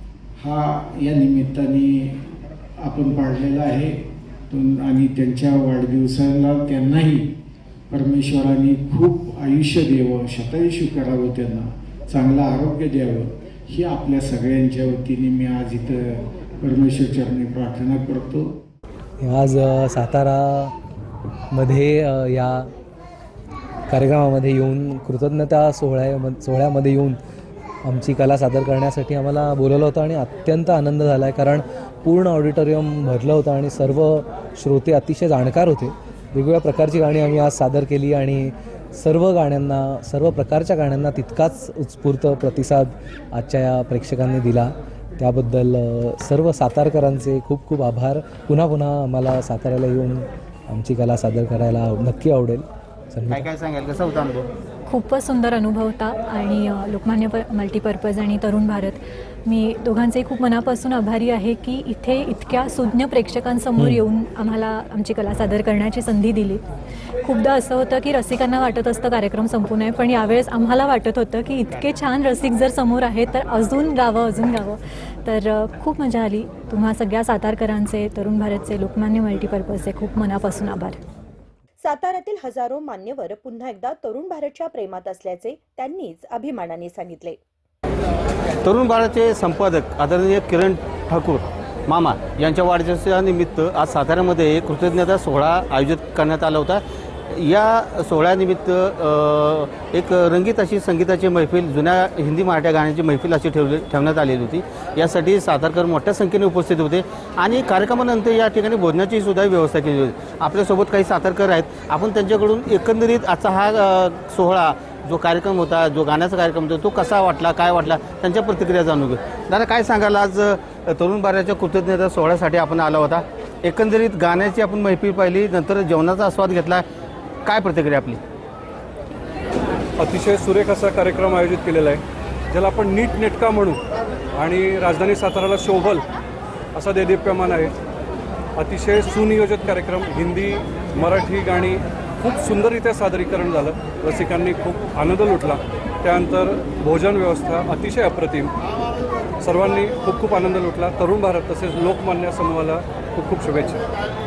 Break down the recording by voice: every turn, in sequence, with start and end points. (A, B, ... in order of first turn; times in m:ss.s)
0:00.4-0:02.2 A
0:02.8-0:04.0 A
0:04.5-0:07.3 A
0:07.9-0:18.6 A
0:19.2-0:20.7 B
0:21.5-0:22.7 B
0:23.9-0:27.2 B
0:27.8-0:53.5 B
0:53.3-0:54.5 C
0:54.9-1:06.6 D
1:03.8-1:04.0 B
1:07.2-1:21.0 D
1:21.8-1:27.4 E
1:28.6-2:06.8 C
2:07.4-2:08.2 C
2:10.0-2:12.0 F
2:12.5-2:13.8 F
2:14.4-2:16.0 F
2:16.7-2:17.7 F
2:18.6-2:28.5 F
2:29.4-2:33.8 F